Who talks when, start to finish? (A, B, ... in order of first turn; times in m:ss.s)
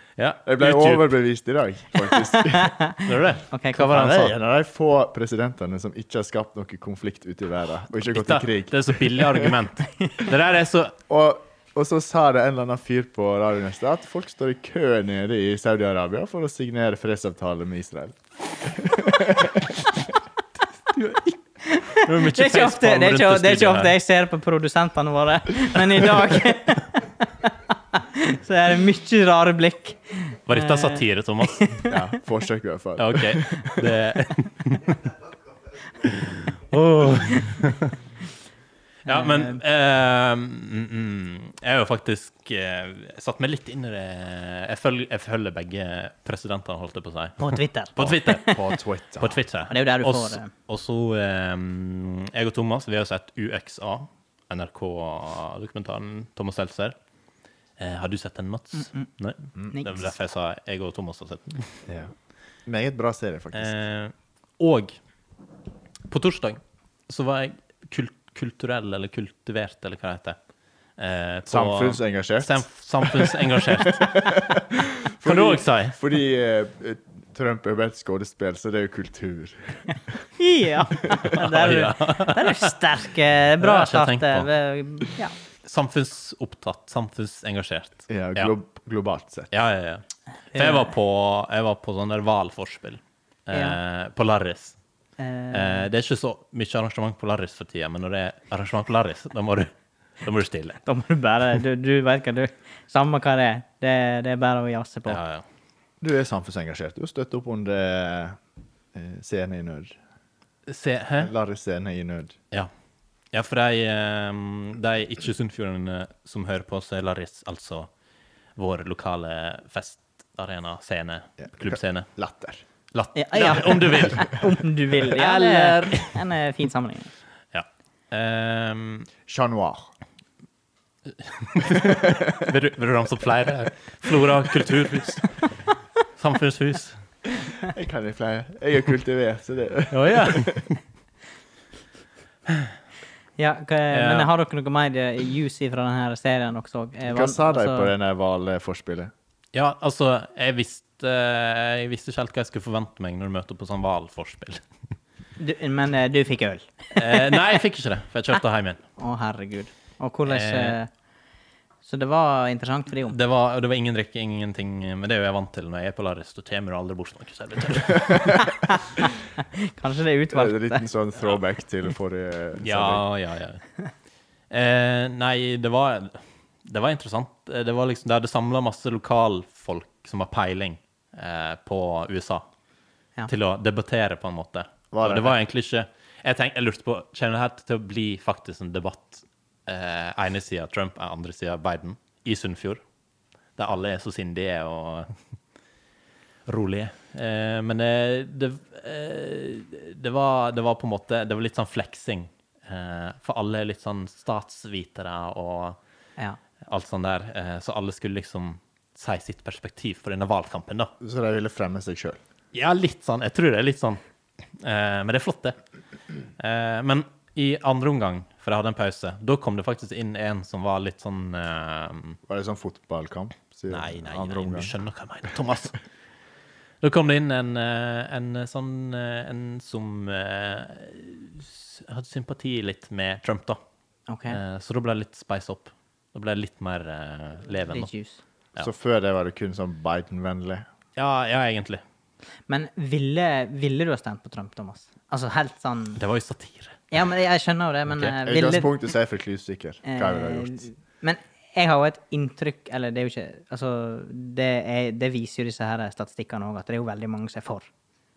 0:00.2-0:01.1 A
0:00.5-0:02.8 B
0:02.5-0:03.8 C
0:03.0-0:04.4 A
0:03.8-0:09.6 B
0:08.0-0:11.0 A
0:11.1-0:19.8 B
0:20.9-0:21.4 A
0:21.6-0:31.9 C
0:21.9-0:24.0 A
0:30.5-0:31.7 A
0:31.9-0:33.8 B
0:33.0-0:35.1 A
0:36.0-0:38.0 A
0:39.0-0:48.6 A
0:39.1-0:39.6 C
0:47.4-0:48.6 C
0:48.0-0:49.4 B
0:49.2-0:57.0 A
0:49.7-0:50.5 C
0:57.8-1:01.7 A
0:58.8-0:59.1 C
0:59.7-1:00.0 C
1:01.9-1:02.1 B
1:02.7-1:03.8 B
1:03.6-1:05.0 A
1:06.1-1:10.4 A
1:11.0-1:14.4 A
1:11.5-1:20.2 B
1:15.1-1:16.0 A
1:20.4-1:25.4 C
1:21.3-1:22.7 A
1:23.6-1:24.5 A
1:25.6-1:28.5 A
1:28.1-1:29.5 B
1:29.5-1:30.0 A
1:30.5-1:30.9 C
1:30.6-1:34.8 A
1:33.5-1:33.8 C
1:35.2-1:35.9 C
1:35.5-1:40.8 A
1:40.9-1:45.2 C
1:45.1-1:45.4 A
1:46.0-1:48.4 B
1:48.9-1:50.0 B
1:50.7-1:51.3 A
1:51.2-1:52.4 B
1:53.3-1:57.9 A
1:58.6-2:02.1 A
2:01.4-2:02.6 B
2:02.9-2:04.4 A
2:03.2-2:07.1 C
2:05.0-2:06.2 A
2:07.5-2:09.1 A
2:09.3-2:09.9 B
2:11.1-2:15.3 A
2:11.9-2:12.3 B
2:16.2-2:17.0 A
2:17.6-2:20.7 B
2:19.9-2:20.7 A
2:23.4-2:27.9 C
2:23.9-2:24.3 A
2:27.1-2:29.1 B
2:29.5-2:34.6 A
2:35.4-2:37.2 C
2:37.0-2:38.8 A
2:39.0-2:40.9 C
2:40.3-2:40.8 A
2:41.8-2:43.2 C
2:43.1-2:48.4 A
2:48.4-2:48.8 C
2:49.4-2:50.9 C
2:50.3-2:53.0 B
2:52.6-2:53.6 A
2:54.5-3:02.4 A
3:03.3-3:12.8 A
3:04.9-3:05.4 B
3:13.6-3:15.2 A
3:16.5-3:25.8 A
3:26.7-3:30.9 A
3:31.0-3:32.2 B
3:32.5-3:34.0 A
3:34.6-3:35.6 A
3:36.4-3:42.2 A
3:42.3-3:44.7 B
3:43.7-3:45.8 A
3:46.8-3:53.6 A
3:54.1-3:54.4 C
3:54.3-3:57.9 A
3:57.7-3:58.2 C
3:58.6-4:00.7 B
4:01.0-4:01.8 A
4:02.5-4:06.0 C
4:06.0-4:06.9 A
4:06.9-4:08.7 C
4:08.2-4:10.6 B
4:09.8-4:17.7 C